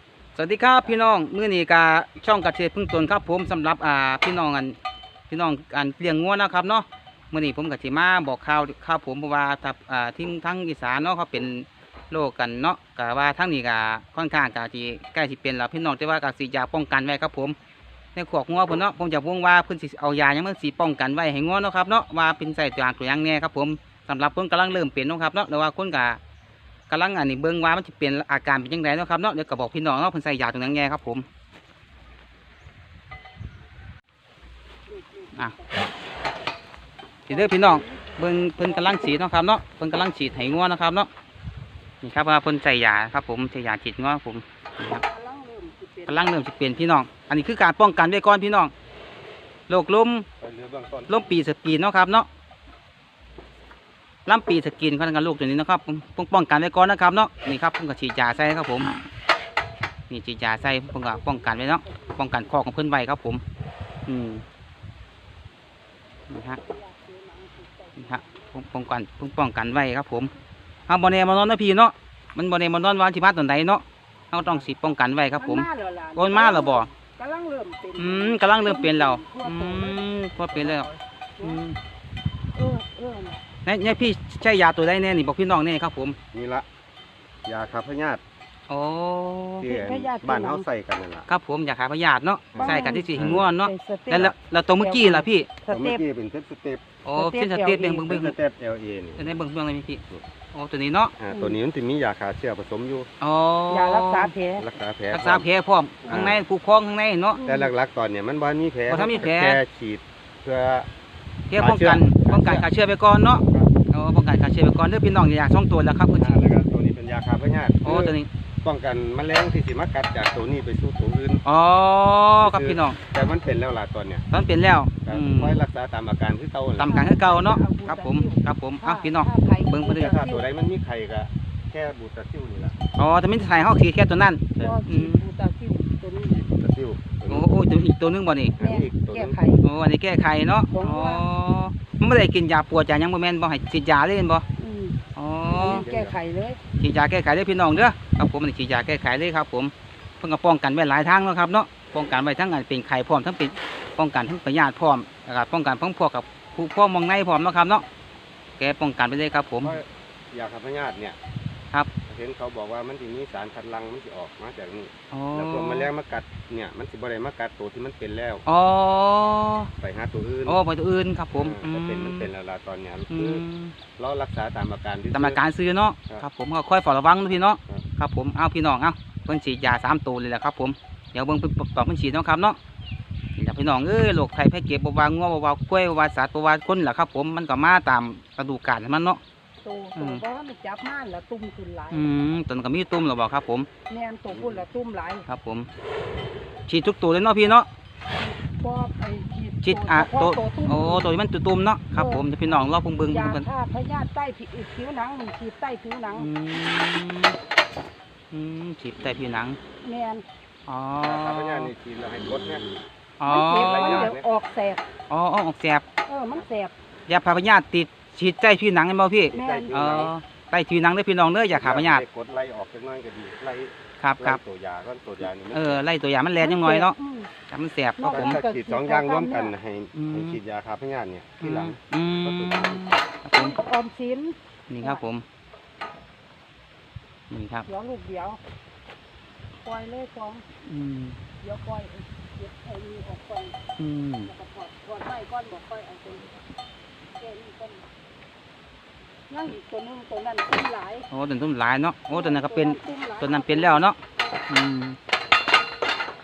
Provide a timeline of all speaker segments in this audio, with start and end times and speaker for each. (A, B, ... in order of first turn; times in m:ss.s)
0:00.3-0:04.8 A
0:00.7-0:01.1 B
0:05.3-0:17.6 A
0:18.2-0:26.2 A
0:26.9-0:31.2 A
0:34.9-0:35.9 C
0:37.3-0:41.1 A
0:37.3-0:39.3 C
0:42.0-0:45.0 A
0:45.0-0:46.4 C
0:46.1-0:48.7 A
0:49.7-0:50.2 A
0:50.4-0:51.2 B
0:51.1-0:52.3 A
0:54.2-0:58.9 A
1:00.1-1:03.4 A
1:00.6-1:02.6 C
1:04.0-1:04.4 A
1:06.3-1:06.6 A
1:06.4-1:08.6 C
1:08.0-1:10.3 A
1:10.9-1:16.9 A
1:15.4-1:20.1 C
1:18.0-1:20.9 A
1:20.5-1:20.9 B
1:21.4-1:21.6 C
1:21.4-1:21.8 A
1:22.5-1:23.4 C
1:23.6-1:26.2 A
1:26.3-1:26.7 B
1:27.4-1:28.2 B
1:28.7-1:29.7 A
1:29.6-1:31.3 B
1:29.6-1:30.6 C
1:31.3-1:35.5 A
1:32.5-1:33.5 B
1:32.6-1:36.0 C
1:35.7-1:36.9 B
1:37.0-1:38.4 A
1:37.1-1:38.1 C
1:38.1-1:39.4 B
1:39.2-1:41.1 A
1:41.2-1:43.1 B
1:41.3-1:41.6 C
1:43.2-1:44.3 A
1:43.7-1:44.7 C
1:44.6-1:45.5 B
1:45.1-1:47.4 A
1:46.0-1:46.3 C
1:46.1-1:46.4 B
1:47.3-1:47.7 C
1:47.4-1:50.9 B
1:48.9-1:49.6 A
1:51.5-1:56.4 A
1:51.6-1:52.7 B
1:53.5-1:53.7 B
1:56.1-2:01.4 B
1:57.8-1:58.3 A
2:01.4-2:03.0 A
2:02.4-2:04.3 B
2:04.3-2:05.6 A
2:05.0-2:07.0 B
2:06.8-2:10.2 A
2:06.8-2:10.4 C
2:09.9-2:12.8 B
2:13.0-2:15.2 A
2:14.6-2:16.4 C
2:16.3-2:17.5 B
2:17.3-2:18.6 A
2:18.6-2:19.4 B
2:18.6-2:19.6 C
2:19.6-2:24.4 A
2:20.7-2:21.2 C
2:24.6-2:25.0 C
2:25.2-2:25.8 A
2:25.5-2:26.6 C
2:25.5-2:26.1 B
2:26.8-2:37.8 A
2:38.6-2:39.8 A
2:39.6-2:41.2 B
2:42.1-2:48.4 B
2:45.1-2:45.9 A
2:48.4-2:49.7 A
2:49.8-2:50.6 B
2:50.4-2:52.3 A
2:51.3-2:53.4 B
2:53.1-2:53.8 A
2:54.0-2:55.4 B
2:55.1-3:02.6 A
3:03.4-3:09.2 A
3:09.6-3:12.1 C
3:10.0-3:10.2 A
3:11.9-3:13.7 A
3:13.9-3:15.2 C
3:14.3-3:14.6 A
3:15.3-3:15.7 A
3:16.7-3:17.7 A
3:18.2-3:21.1 C
3:19.6-3:23.4 A
3:21.9-3:22.3 C
3:23.1-3:26.3 C
3:26.1-3:27.4 A
3:28.3-3:29.6 A
3:29.8-3:30.2 C
3:30.7-3:31.7 A
3:31.0-3:32.7 B
3:33.2-3:34.1 A
3:33.2-3:34.8 C
3:33.5-3:34.3 B
3:35.1-3:35.8 A
3:36.0-3:36.7 C
3:37.1-3:42.0 A
3:39.3-3:40.1 B
3:39.3-3:39.7 C
3:41.5-3:45.9 B
3:44.0-3:44.4 A
3:45.2-3:47.0 A
3:46.4-3:47.3 C
3:47.5-3:48.4 A
3:48.0-3:49.5 C
3:48.0-3:52.8 B
3:49.9-3:50.4 A
3:51.4-3:53.6 A
3:53.3-3:55.1 C
3:54.7-3:55.2 A
3:57.3-3:57.7 A
3:57.7-3:58.4 C
3:59.6-4:00.4 C
4:00.6-4:01.2 A
4:01.4-4:03.6 C
4:03.8-4:04.3 A
4:04.2-4:06.3 C
4:07.1-4:07.9 C
4:09.3-4:11.1 C
4:11.1-4:14.0 A
4:12.1-4:13.9 C
4:14.5-4:15.0 A